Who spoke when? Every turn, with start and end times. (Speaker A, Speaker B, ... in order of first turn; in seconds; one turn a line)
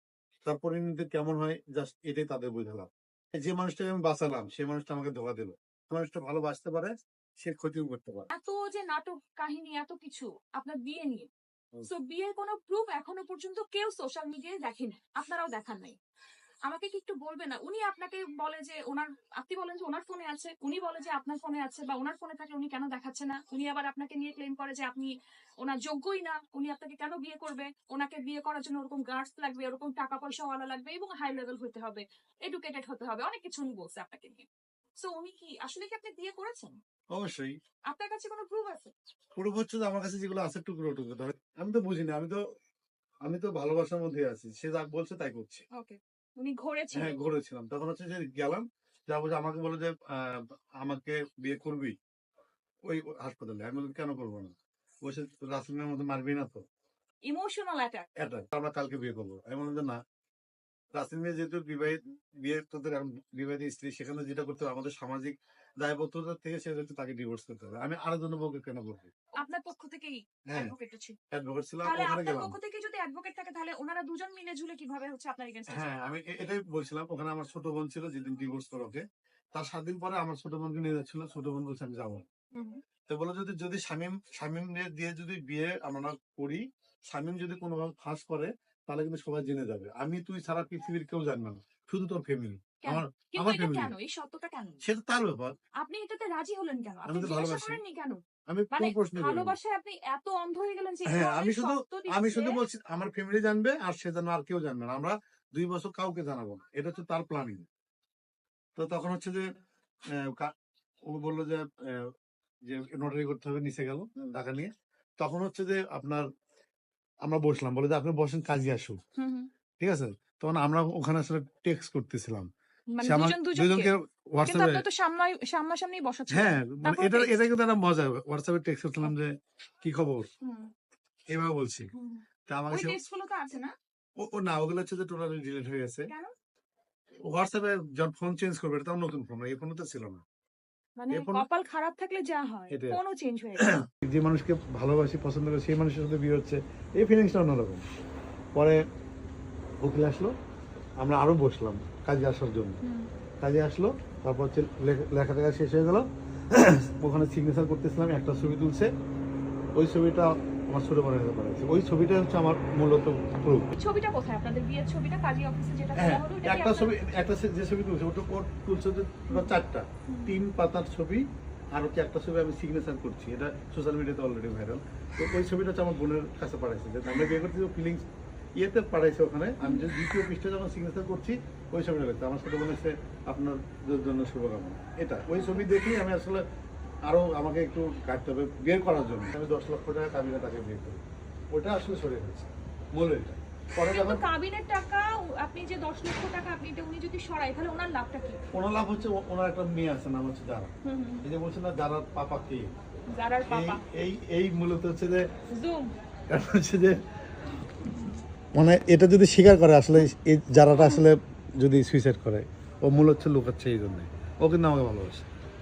Speaker A: 0.5-8.3
Speaker B: 8.3-11.3
Speaker B: 11.9-16.0
Speaker B: 16.7-34.5
Speaker B: 35.0-36.7
Speaker A: 37.1-37.5
Speaker B: 37.9-38.9
Speaker A: 39.4-42.4
Speaker A: 43.2-45.6
Speaker B: 45.7-47.2
Speaker A: 46.9-52.0
Speaker A: 52.9-54.5
Speaker A: 55.0-56.6
Speaker B: 57.3-58.1
Speaker A: 58.2-60.0
Speaker A: 60.9-69.1
Speaker B: 69.4-71.2
Speaker A: 71.3-72.5
Speaker B: 71.8-75.9
Speaker A: 75.7-79.0
Speaker A: 79.5-82.2
Speaker B: 82.5-82.8
Speaker A: 83.1-93.9
Speaker B: 92.8-94.8
Speaker A: 94.8-95.5
Speaker B: 95.8-98.2
Speaker A: 97.0-97.8
Speaker A: 98.5-99.5
Speaker B: 98.7-102.6
Speaker A: 101.1-107.7
Speaker A: 108.8-109.4
Speaker A: 110.1-110.5
Speaker A: 111.1-112.1
Speaker A: 112.7-116.2
Speaker A: 117.2-119.0
Speaker B: 119.2-119.5
Speaker A: 119.8-122.5
Speaker B: 122.9-123.9
Speaker A: 123.0-124.8
Speaker B: 124.4-127.5
Speaker A: 126.3-130.3
Speaker B: 130.4-130.7
Speaker A: 131.3-131.9
Speaker B: 131.9-133.7
Speaker A: 132.5-133.0
Speaker A: 134.2-136.1
Speaker A: 137.3-140.2
Speaker B: 141.0-143.7
Speaker A: 141.1-141.4
Speaker A: 142.7-143.0
Speaker A: 143.6-147.8
Speaker A: 149.8-150.3
Speaker A: 151.0-152.8
Speaker B: 152.8-153.1
Speaker A: 153.4-158.9
Speaker A: 159.8-163.7
Speaker B: 163.7-167.0
Speaker A: 165.9-178.0
Speaker B: 170.1-170.3
Speaker A: 178.6-186.4
Speaker B: 179.6-179.9
Speaker B: 185.3-185.7
Speaker A: 187.1-191.0
Speaker A: 191.5-194.2
Speaker B: 193.8-198.4
Speaker A: 198.5-200.7
Speaker B: 200.8-201.2
Speaker A: 201.2-202.7
Speaker B: 203.1-203.8
Speaker A: 203.5-205.2
Speaker B: 205.5-205.9
Speaker A: 206.3-206.9
Speaker A: 208.6-215.3
Speaker B: 210.8-211.0